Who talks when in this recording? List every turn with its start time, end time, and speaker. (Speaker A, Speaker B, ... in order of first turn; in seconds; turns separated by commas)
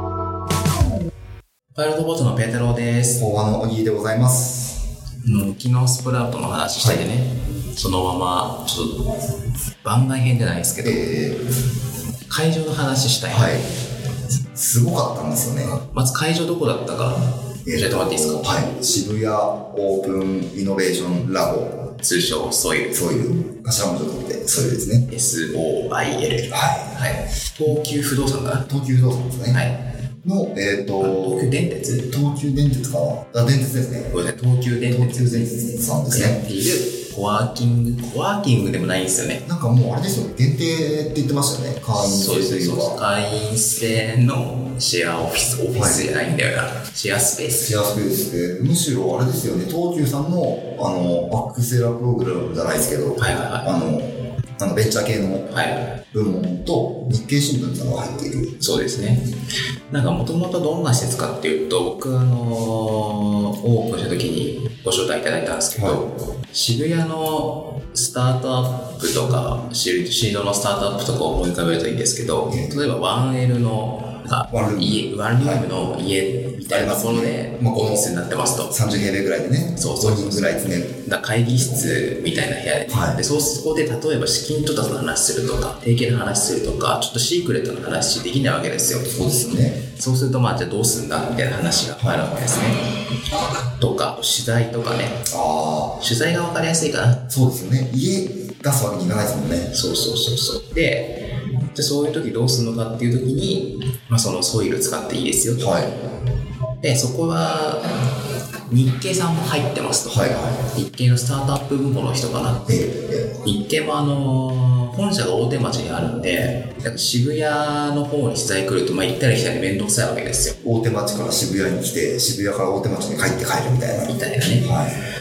Speaker A: 1.7-3.2, Speaker B: 3.2-4.8, Speaker A: 5.2-9.2, Speaker A: 9.8-11.2, Speaker B: 10.8-11.4, Speaker A: 12.3-13.7, Speaker B: 13.3-13.7, Speaker B: 14.5-15.8, Speaker A: 15.8-18.7, Speaker B: 17.7-21.9, Speaker A: 22.0-23.0, Speaker B: 22.9-25.1, Speaker A: 25.1-28.7, Speaker B: 26.5-27.2, Speaker B: 28.7-29.7, Speaker A: 29.5-29.8, Speaker B: 30.2-31.5, Speaker A: 31.0-32.1, Speaker B: 32.1-34.1, Speaker A: 34.1-39.4, Speaker B: 34.9-36.4, Speaker B: 39.5-43.0, Speaker A: 42.0-47.8, Speaker B: 45.7-46.1, Speaker B: 47.5-55.5, Speaker A: 53.2-53.7, Speaker A: 55.5-56.0, Speaker B: 56.1-58.6, Speaker A: 58.6-59.3, Speaker A: 59.9-78.9, Speaker B: 65.7-66.0, Speaker B: 72.5-72.8, Speaker B: 74.5-75.7, Speaker B: 76.7-78.1, Speaker B: 78.6-82.0, Speaker A: 79.8-89.2, Speaker B: 82.9-83.2, Speaker B: 89.1-89.8, Speaker A: 89.8-93.0, Speaker B: 92.0-92.4, Speaker A: 93.7-95.3, Speaker B: 95.3-96.0, Speaker A: 96.0-97.2, Speaker B: 97.3-99.7, Speaker A: 99.7-105.9, Speaker B: 105.6-105.9, Speaker A: 106.8-108.1, Speaker A: 108.7-120.6, Speaker B: 110.1-110.6, Speaker B: 112.7-113.3, Speaker B: 120.6-125.0, Speaker A: 124.0-124.8